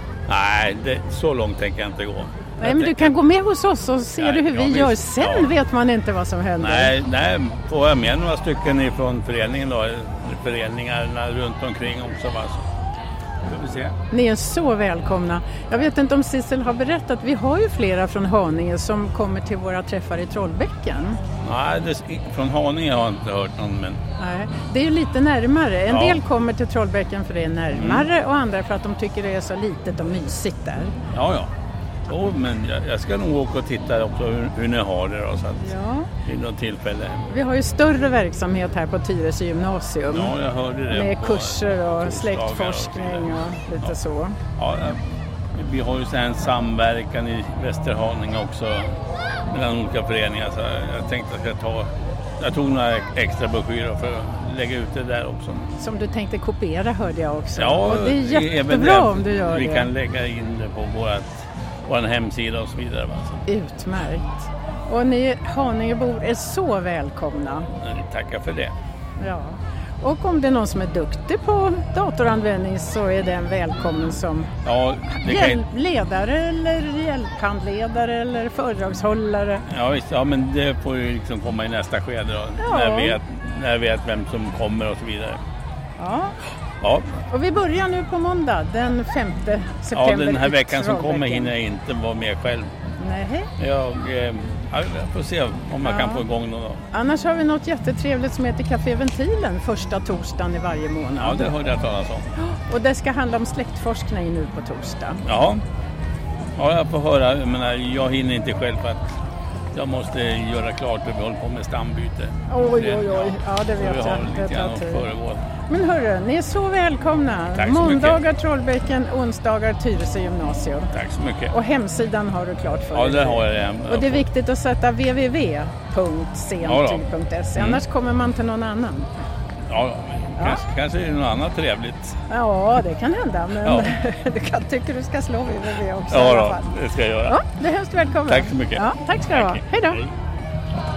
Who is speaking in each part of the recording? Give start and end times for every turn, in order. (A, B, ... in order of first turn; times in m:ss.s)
0:00.3-0:03.1 A
0:02.6-0:06.9 B
0:04.2-0:05.5 A
0:06.6-0:12.6 A
0:13.4-0:14.0 A
0:14.1-0:21.2 B
0:21.4-0:24.0 A
0:24.2-0:30.9 B
0:25.9-0:26.2 A
0:27.7-0:28.1 A
0:31.1-0:31.5 A
0:32.1-0:35.7 A
0:35.6-0:36.1 B
0:36.2-0:37.3 A
0:37.3-0:40.4 B
0:40.1-0:44.0 A
0:40.9-0:44.4 B
0:44.6-0:45.0 A
0:45.5-0:55.7 A
0:55.8-0:59.9 B
0:57.6-1:03.4 A
1:03.5-1:07.7 B
1:07.8-1:08.7 A
1:09.2-1:14.5 B
1:14.6-1:15.6 A
1:15.2-1:19.6 B
1:19.7-1:25.4 A
1:22.6-1:23.2 B
1:26.0-1:26.4 B
1:26.8-1:27.2 A
1:27.3-1:31.5 B
1:29.9-1:32.7 A
1:33.0-1:33.5 B
1:33.6-1:36.8 A
1:35.8-1:36.2 B
1:36.9-1:41.5 B
1:41.2-1:42.3 A
1:42.4-1:45.2 B
1:45.2-1:45.6 A
1:46.6-1:49.1 A
1:49.7-1:55.4 A
1:52.5-1:55.1 B
1:55.7-2:00.9 B
1:57.5-1:58.2 A
2:00.9-2:01.5 A
2:01.5-2:09.1 B
2:02.9-2:04.2 A
2:06.6-2:07.8 A
2:09.7-2:12.2 A
2:10.4-2:10.6 B
2:12.3-2:16.7 B
2:13.6-2:13.9 A
2:16.1-2:17.4 A
2:17.2-2:20.0 B
2:18.3-2:20.1 A